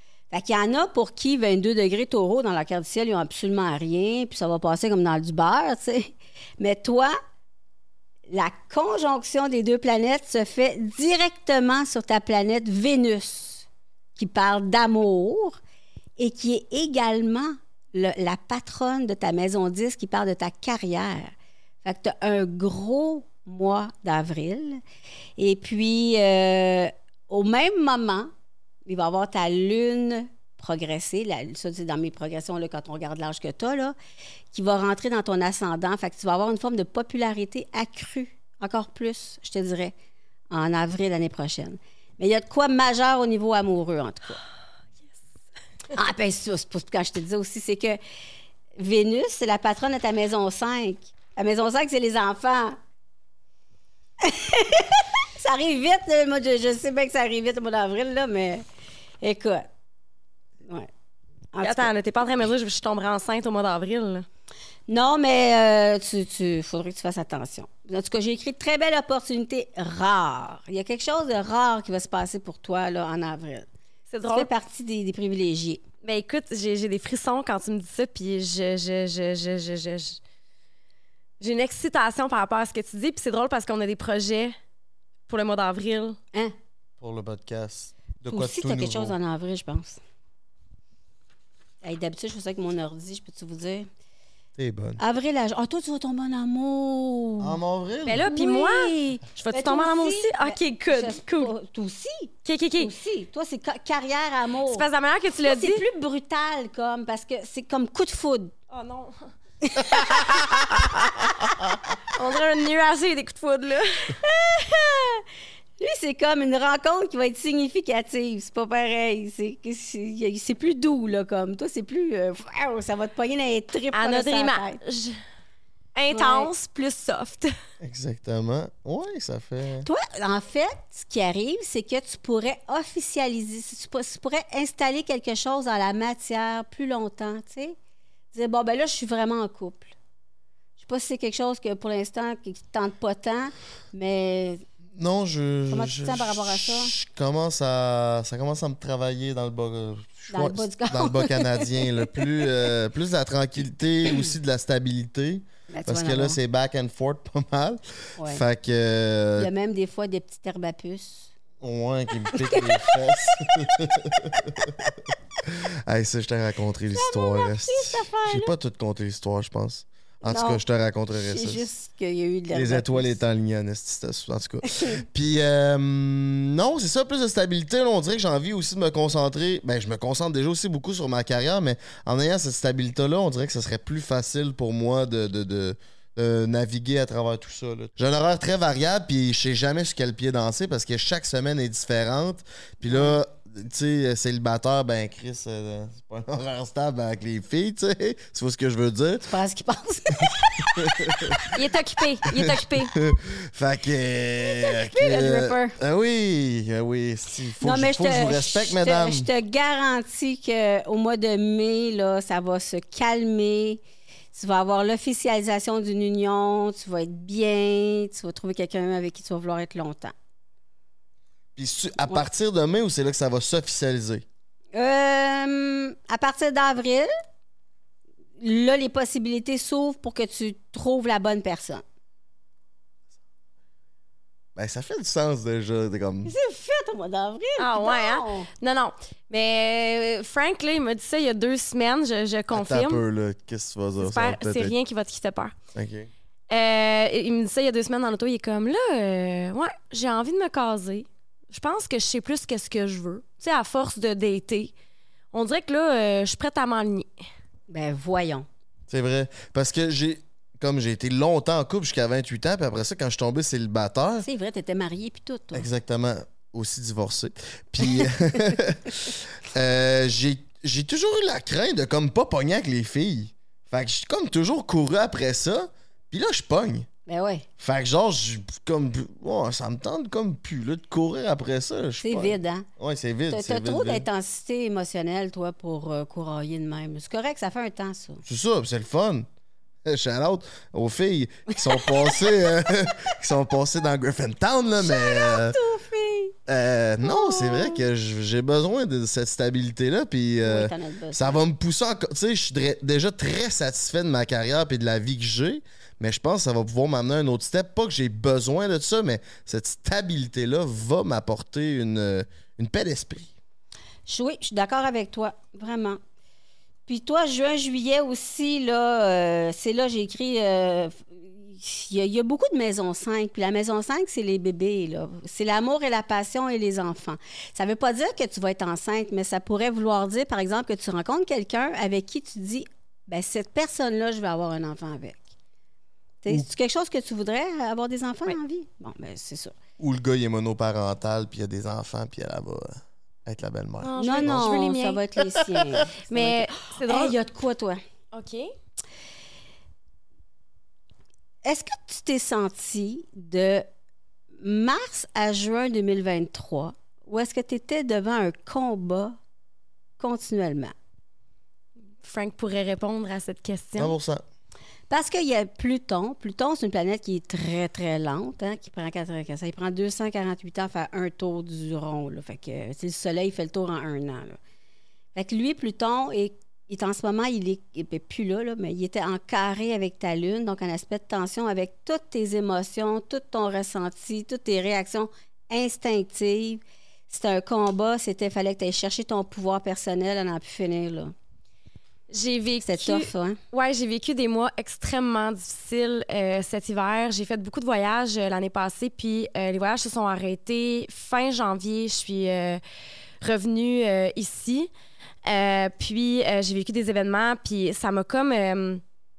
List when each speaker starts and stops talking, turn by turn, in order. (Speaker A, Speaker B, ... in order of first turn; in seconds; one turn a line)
Speaker A: 0.3-7.2
Speaker A: 8.3-15.6
Speaker A: 16.2-21.3
Speaker A: 21.8-24.8
Speaker A: 25.4-28.3
Speaker A: 28.9-34.0
Speaker A: 34.5-39.9
Speaker A: 40.5-44.4
Speaker A: 45.9-48.0
Speaker A: 48.8-52.8
Speaker A: 54.2-58.6
Speaker A: 59.2-59.7
Speaker A: 61.5-61.9
Speaker B: 61.6-64.3
Speaker A: 64.9-73.7
Speaker B: 74.1-74.5
Speaker A: 74.3-75.8
Speaker B: 76.0-80.2
Speaker B: 81.4-84.5
Speaker B: 85.3-86.2
Speaker C: 87.0-89.2
Speaker A: 88.3-90.0
Speaker A: 91.8-93.9
Speaker C: 94.6-95.0
Speaker A: 95.0-97.6
Speaker C: 97.4-98.3
Speaker B: 98.1-101.5
Speaker A: 98.2-104.8
Speaker B: 102.5-102.9
Speaker B: 104.7-105.8
Speaker A: 105.4-108.5
Speaker B: 108.7-109.3
Speaker A: 109.6-111.5
Speaker B: 110.1-111.3
Speaker B: 112.1-114.2
Speaker A: 114.2-115.2
Speaker A: 115.8-124.8
Speaker B: 123.9-125.2
Speaker B: 126.0-127.5
Speaker A: 126.1-126.5
Speaker C: 127.8-129.9
Speaker A: 129.8-137.8
Speaker A: 138.3-139.9
Speaker A: 140.8-144.6
Speaker C: 145.0-159.5
Speaker A: 145.7-146.9
Speaker A: 150.3-152.3
Speaker A: 155.7-156.4
Speaker A: 158.2-158.4
Speaker A: 159.4-161.3
Speaker C: 161.6-164.9
Speaker A: 162.3-163.5
Speaker A: 164.6-164.9
Speaker C: 165.4-171.7
Speaker A: 166.9-168.5
Speaker A: 170.3-170.6
Speaker A: 171.1-173.2
Speaker C: 172.5-199.3
Speaker A: 174.6-175.0
Speaker A: 192.8-193.2
Speaker A: 199.2-201.5
Speaker C: 200.2-201.4
Speaker B: 201.5-203.0
Speaker C: 202.3-209.3
Speaker A: 204.4-205.8
Speaker A: 207.6-213.8
Speaker A: 214.3-220.1
Speaker C: 221.6-224.2
Speaker A: 224.7-227.1
Speaker A: 228.4-231.8
Speaker C: 234.6-236.3
Speaker A: 236.2-238.5
Speaker B: 237.6-243.0
Speaker C: 242.5-244.7
Speaker B: 244.0-245.5
Speaker C: 245.8-246.1
Speaker B: 246.5-254.7
Speaker B: 255.3-257.1
Speaker A: 257.7-258.5
Speaker C: 258.9-264.3
Speaker A: 264.2-265.7
Speaker C: 265.5-276.9
Speaker A: 277.1-277.5
Speaker C: 277.6-284.1
Speaker A: 282.0-282.7
Speaker A: 283.3-288.2
Speaker C: 288.2-289.3
Speaker C: 289.9-295.6
Speaker A: 294.8-296.4
Speaker C: 296.5-313.3
Speaker A: 297.0-297.8
Speaker A: 300.4-301.4
Speaker A: 314.1-316.0
Speaker A: 316.9-335.2
Speaker A: 336.2-339.5
Speaker C: 339.8-344.5
Speaker B: 343.8-345.0
Speaker A: 344.0-347.8
Speaker C: 345.4-345.8
Speaker B: 346.1-347.1
Speaker B: 348.1-348.5
Speaker A: 351.4-353.7
Speaker A: 354.4-359.2
Speaker A: 360.0-360.7
Speaker B: 362.0-363.9
Speaker C: 363.8-364.2
Speaker A: 364.9-374.4
Speaker A: 375.1-391.1
Speaker B: 392.1-402.6
Speaker A: 392.6-393.4
Speaker B: 403.2-404.7
Speaker B: 405.2-408.8